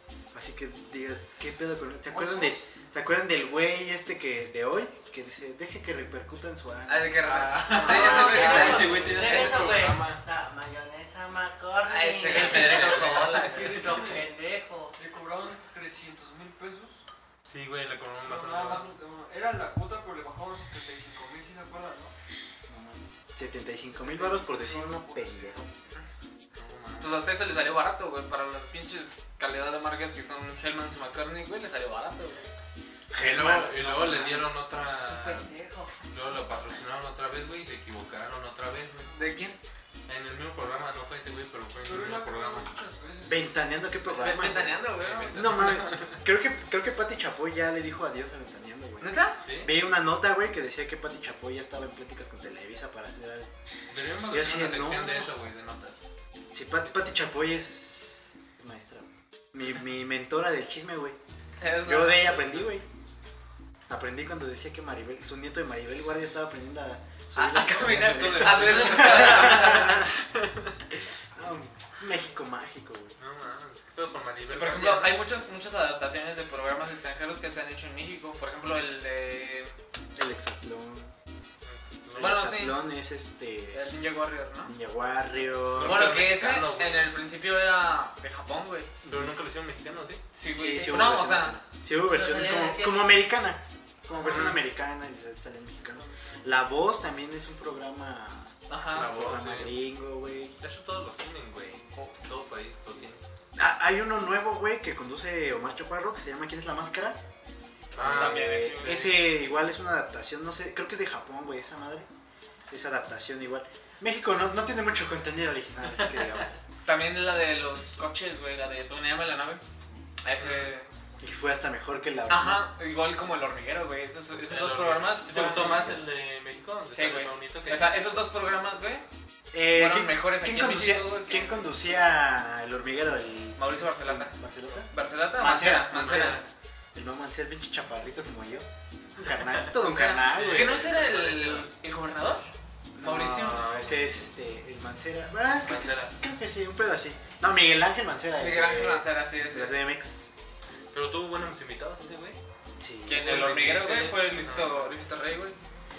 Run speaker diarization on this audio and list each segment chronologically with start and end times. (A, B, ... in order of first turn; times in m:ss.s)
0:00.3-0:07.3 A
0:02.1-0:02.6 B
0:06.9-0:09.8 C
0:07.2-0:10.2 D
0:07.7-0:15.0 E
0:07.9-0:08.8 A
0:11.8-0:14.1 C
0:12.3-0:13.2 D
0:13.0-0:14.3 B
0:15.0-0:17.0 B
0:17.4-0:18.9 D
0:18.2-0:22.1 B
0:22.7-0:25.7 A
0:23.9-0:26.0 B
0:26.5-0:27.2 D
0:27.0-0:32.5 C
0:33.1-0:34.5 A
0:33.2-0:35.5 D
0:35.0-0:35.9 E
0:36.1-0:39.1 D
0:39.1-0:39.6 C
0:40.1-0:42.7 D
0:41.8-0:43.8 B
0:43.2-0:53.5 A
0:44.1-0:45.5 C
0:45.0-0:46.2 D
0:49.0-0:49.4 C
0:49.4-0:49.7 D
0:53.9-0:56.0 D
0:54.3-0:55.3 A
0:56.5-1:01.2 A
1:01.5-1:02.6 C
1:01.8-1:02.8 A
1:03.9-1:10.1 A
1:07.3-1:10.1 C
1:08.0-1:10.1 D
1:11.3-1:13.1 A
1:13.2-1:15.2 D
1:14.5-1:19.7 C
1:20.1-1:21.1 A
1:21.6-1:22.4 D
1:22.2-1:23.8 A
1:22.2-1:22.8 C
1:23.7-1:24.7 C
1:24.6-1:26.2 A
1:25.7-1:27.2 D
1:25.8-1:28.9 C
1:29.0-1:29.4 A
1:29.1-1:30.2 D
1:30.3-1:31.6 C
1:30.5-1:40.6 A
1:32.0-1:33.2 E
1:34.1-1:34.6 C
1:34.2-1:34.6 D
1:35.9-1:36.4 B
1:38.7-1:39.8 D
1:40.6-1:43.2 D
1:43.6-1:47.2 A
1:47.9-1:49.3 D
1:48.0-1:52.1 A
1:48.0-1:49.1 C
1:52.7-1:56.5 A
1:56.8-1:59.6 C
2:00.2-2:00.9 C
2:00.4-2:00.6 D
2:01.2-2:02.6 A
2:02.3-2:05.9 C
2:04.4-2:08.0 D
2:05.6-2:06.0 A
2:06.9-2:09.0 C
2:09.5-2:16.4 A
2:09.7-2:12.0 C
2:13.6-2:14.3 C
2:14.9-2:16.4 C
2:15.9-2:16.5 D
2:16.9-2:20.9 A
2:19.4-2:21.7 D
2:19.8-2:23.7 C
2:23.0-2:30.3 A
2:23.0-2:24.2 D
2:25.6-2:26.1 D
2:28.4-2:29.8 C
2:30.9-2:32.4 D
2:32.8-2:33.5 A
2:33.0-2:35.6 C
2:33.2-2:34.9 D